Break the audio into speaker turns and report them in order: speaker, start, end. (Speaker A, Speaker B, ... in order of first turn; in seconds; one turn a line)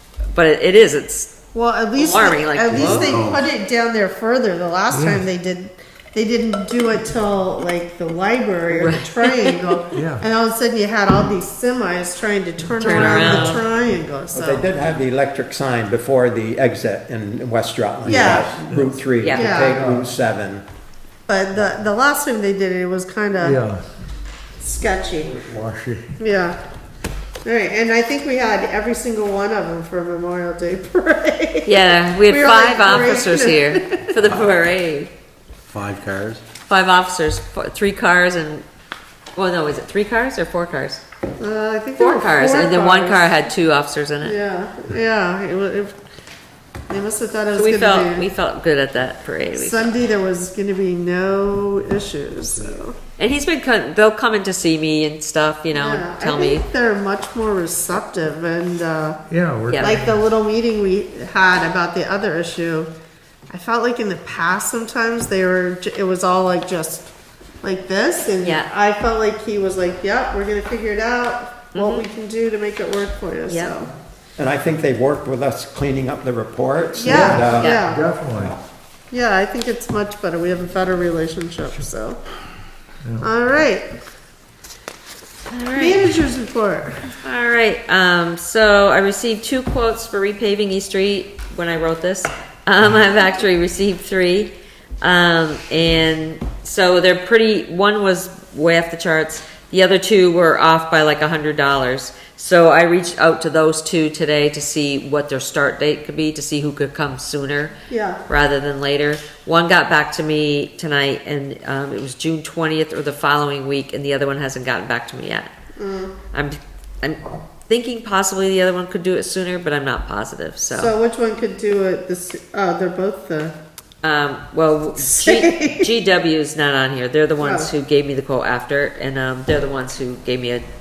Speaker A: 0.3-1.4
Speaker B: 1.5-14.7
Speaker A: 1.9-3.1
Speaker C: 2.7-3.5
Speaker D: 4.9-5.2
Speaker A: 8.7-9.8
Speaker D: 9.9-10.2
Speaker A: 12.7-13.6
Speaker D: 13.2-13.4
Speaker E: 14.3-20.6
Speaker C: 18.0-18.5
Speaker B: 18.1-18.5
Speaker A: 19.2-19.5
Speaker B: 19.3-19.8
Speaker B: 21.3-23.6
Speaker D: 23.4-23.8
Speaker B: 24.6-25.4
Speaker D: 25.4-26.1
Speaker B: 26.2-26.6
Speaker B: 27.4-34.1
Speaker A: 31.6-35.1
Speaker C: 34.2-34.5
Speaker C: 35.7-36.4
Speaker A: 36.7-38.6
Speaker A: 39.4-41.0
Speaker B: 41.4-43.5
Speaker A: 42.0-44.4
Speaker B: 44.2-45.9
Speaker B: 46.9-48.3
Speaker A: 47.5-50.0
Speaker B: 49.5-53.0
Speaker A: 53.2-56.6
Speaker B: 55.7-59.2
Speaker D: 59.3-60.1
Speaker A: 59.7-60.0
Speaker B: 59.8-62.9
Speaker B: 63.5-73.9
Speaker A: 68.4-68.7
Speaker A: 71.7-72.0
Speaker A: 73.5-73.8
Speaker E: 74.4-77.8
Speaker B: 76.9-78.0
Speaker D: 77.0-78.6
Speaker A: 77.5-77.9
Speaker B: 79.1-82.2
Speaker B: 83.2-83.9
Speaker A: 85.5-86.1
Speaker B: 85.7-87.1
Speaker A: 87.2-115.5
Speaker B: 107.9-108.2
Speaker B: 115.8-116.2
Speaker A: 116.3-120.9
Speaker B: 120.7-123.5
Speaker A: 124.0-130.7
Speaker B: 124.9-125.9
Speaker B: 127.4-127.7